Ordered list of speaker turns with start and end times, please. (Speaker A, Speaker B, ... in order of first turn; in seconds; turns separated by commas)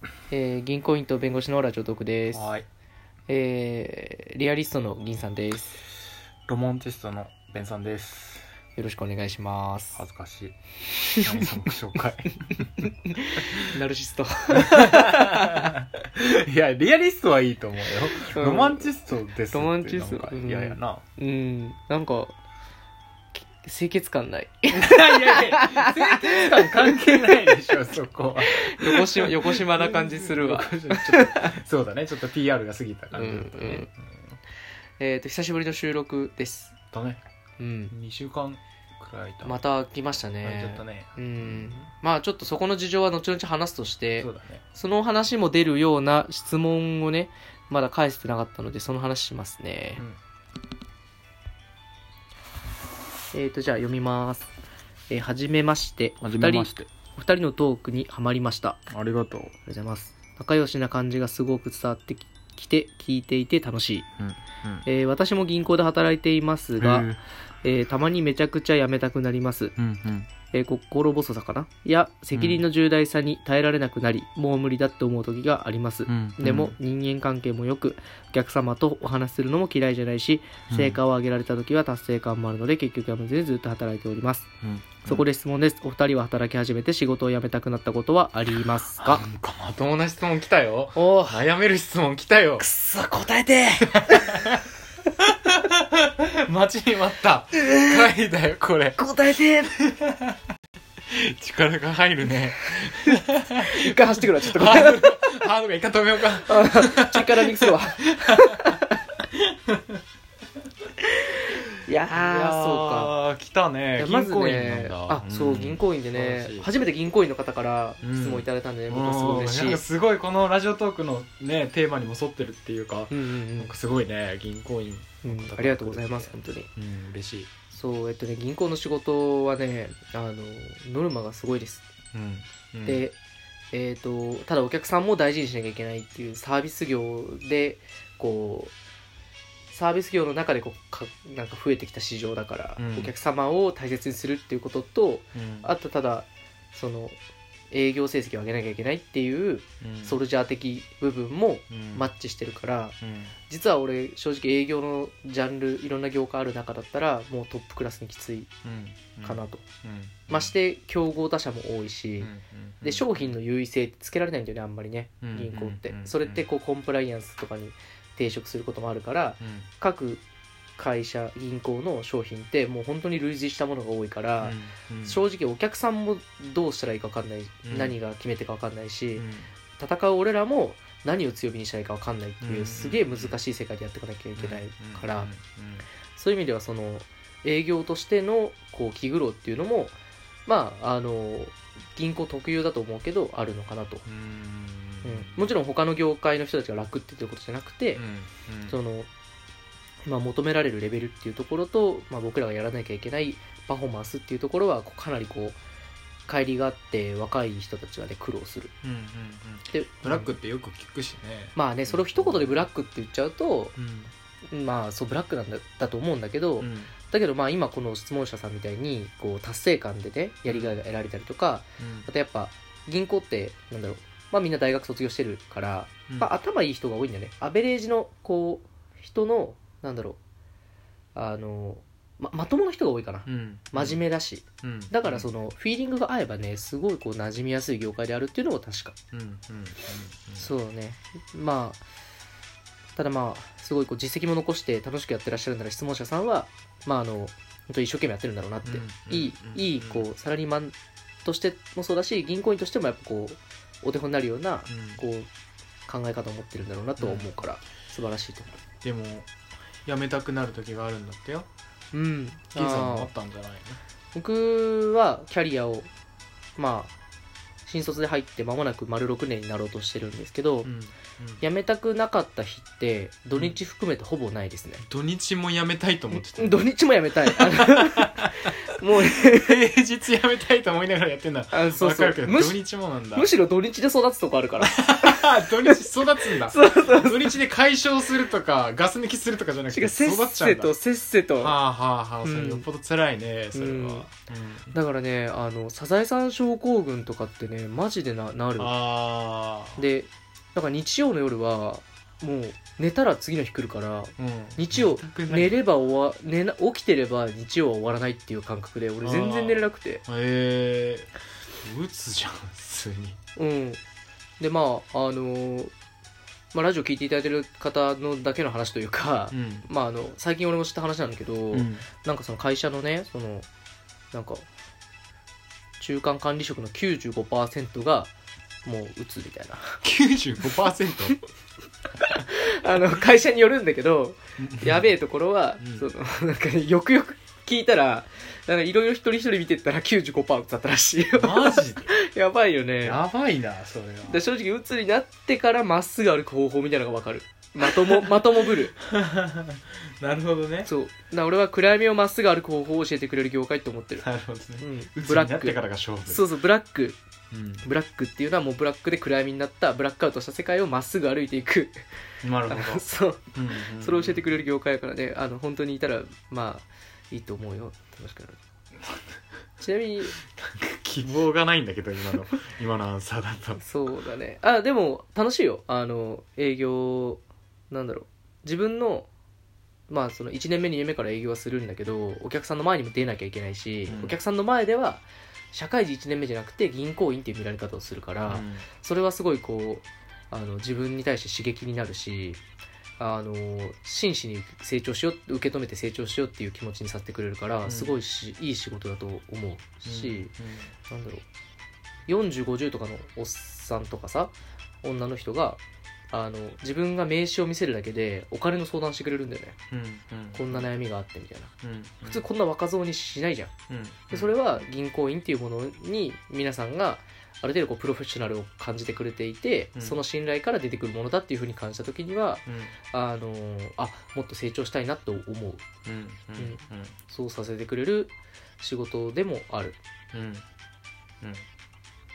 Speaker A: 0.3-2.5, Speaker B: 2.3-2.7, Speaker A: 3.3-5.8, Speaker B: 6.5-8.5, Speaker A: 8.8-10.0, Speaker B: 10.0-10.6, Speaker A: 11.0-11.4, Speaker B: 11.2-12.7, Speaker A: 12.8-15.7, Speaker B: 13.4-13.7, Speaker B: 14.6-21.0, Speaker A: 18.2-18.9, Speaker A: 19.5-22.4, Speaker A: 23.4-27.6, Speaker B: 24.7-34.4, Speaker A: 28.5-31.5, Speaker A: 33.1-33.9, Speaker A: 35.0-36.8, Speaker B: 36.9-37.2, Speaker A: 37.6-37.9, Speaker B: 37.9-39.6, Speaker A: 39.4-50.0, Speaker B: 40.4-41.9, Speaker B: 44.2-44.6, Speaker A: 53.3-54.5, Speaker A: 55.1-58.8, Speaker B: 56.2-56.9, Speaker B: 58.9-59.5, Speaker A: 59.7-64.1, Speaker B: 64.2-64.9, Speaker A: 64.9-67.1, Speaker B: 66.8-67.2, Speaker A: 67.6-69.8, Speaker B: 69.8-70.3, Speaker A: 70.5-84.5, Speaker B: 72.3-72.6, Speaker B: 76.1-76.8, Speaker B: 80.7-81.0, Speaker B: 84.6-85.3, Speaker A: 85.1-89.2, Speaker B: 89.0-92.7, Speaker A: 91.0-91.5, Speaker A: 92.6-94.6, Speaker B: 93.9-94.6, Speaker B: 95.3-99.0, Speaker A: 97.6-98.1, Speaker A: 99.0-99.8, Speaker B: 99.7-100.4, Speaker B: 101.1-108.8, Speaker A: 102.6-105.4, Speaker A: 106.5-109.1, Speaker B: 109.3-110.0, Speaker A: 111.1-113.1, Speaker B: 112.1-116.7, Speaker A: 114.0-119.8, Speaker B: 118.0-127.5, Speaker A: 123.1-123.7, Speaker A: 125.2-126.7, Speaker A: 127.7-131.8, Speaker B: 132.1-133.0, Speaker A: 132.8-133.2, Speaker A: 133.7-138.7, Speaker A: 139.7-147.2, Speaker B: 142.8-143.1, Speaker B: 145.3-145.7, Speaker A: 147.7-153.0, Speaker B: 149.8-150.2, Speaker B: 151.7-152.1, Speaker B: 153.0-153.3, Speaker A: 153.5-158.5, Speaker B: 158.6-160.5, Speaker A: 159.2-159.6, Speaker A: 160.3-162.3, Speaker B: 162.2-163.3, Speaker A: 162.8-170.2, Speaker B: 165.2-166.4, Speaker B: 169.4-169.7, Speaker A: 170.8-179.3, Speaker B: 174.4-175.2, Speaker B: 177.6-178.0, Speaker B: 179.2-179.5, Speaker A: 179.8-185.3, Speaker B: 182.4-183.4, Speaker B: 184.4-185.8, Speaker A: 186.2-189.9, Speaker A: 190.5-194.1, Speaker B: 194.1-195.5, Speaker A: 195.0-198.0, Speaker B: 198.0-198.8, Speaker A: 198.7-199.1, Speaker A: 200.1-205.6, Speaker A: 206.3-208.7, Speaker B: 208.8-212.7, Speaker A: 209.7-210.3, Speaker A: 211.6-213.8, Speaker B: 213.8-214.1, Speaker A: 214.5-230.2, Speaker B: 216.6-216.9, Speaker B: 220.5-220.8, Speaker B: 221.8-222.1, Speaker A: 231.2-238.9, Speaker B: 233.3-234.0, Speaker B: 234.6-235.3, Speaker B: 239.1-240.5, Speaker A: 240.4-241.8, Speaker A: 243.0-255.3, Speaker B: 248.7-250.1, Speaker B: 254.7-255.0, Speaker A: 255.9-258.5, Speaker B: 257.0-257.3, Speaker B: 258.8-259.3, Speaker B: 259.9-261.5, Speaker A: 261.9-263.1, Speaker B: 262.6-263.8, Speaker A: 264.1-265.9, Speaker A: 266.6-266.9, Speaker A: 267.7-270.7, Speaker B: 270.6-271.4, Speaker A: 271.4-274.9, Speaker B: 274.8-276.7, Speaker A: 276.1-279.6, Speaker B: 277.2-278.6, Speaker B: 279.1-283.3, Speaker A: 281.5-282.6, Speaker A: 283.1-285.8, Speaker B: 284.6-290.8, Speaker A: 286.4-287.4, Speaker A: 289.7-291.6, Speaker B: 291.4-294.7, Speaker A: 292.2-292.7, Speaker A: 293.5-294.1, Speaker A: 294.7-298.7, Speaker B: 298.6-299.8, Speaker A: 299.8-310.0, Speaker B: 304.2-305.6, Speaker B: 309.0-313.2, Speaker A: 313.4-313.8, Speaker A: 314.4-315.7, Speaker A: 316.5-323.5, Speaker B: 319.3-319.7, Speaker B: 321.5-321.9, Speaker A: 324.1-324.5, Speaker A: 325.8-328.1, Speaker A: 328.6-329.8, Speaker B: 329.8-331.2, Speaker A: 332.0-343.0, Speaker B: 334.4-334.9, Speaker B: 335.6-335.9, Speaker B: 341.1-341.9, Speaker B: 342.8-344.3, Speaker A: 344.1-348.8, Speaker B: 347.6-348.0, Speaker B: 348.8-350.7, Speaker A: 350.6-354.1, Speaker B: 354.0-356.2, Speaker A: 354.6-357.0, Speaker B: 357.3-357.7, Speaker A: 357.6-361.9, Speaker B: 362.2-364.3, Speaker A: 362.5-368.4, Speaker A: 369.6-370.1, Speaker B: 370.2-373.6, Speaker A: 373.6-379.1, Speaker A: 379.9-392.4, Speaker B: 383.9-384.2, Speaker B: 388.3-388.7, Speaker A: 393.0-400.3, Speaker B: 397.6-398.0, Speaker B: 399.9-400.7, Speaker A: 400.9-401.2, Speaker A: 402.1-405.6, Speaker A: 406.1-409.6, Speaker B: 409.7-410.7, Speaker A: 410.3-411.5, Speaker B: 411.6-412.2, Speaker A: 412.1-413.5, Speaker B: 413.7-414.3, Speaker A: 414.1-425.6, Speaker B: 419.8-420.0, Speaker B: 422.5-422.8, Speaker B: 425.9-427.0, Speaker A: 426.4-429.8, Speaker B: 430.1-430.5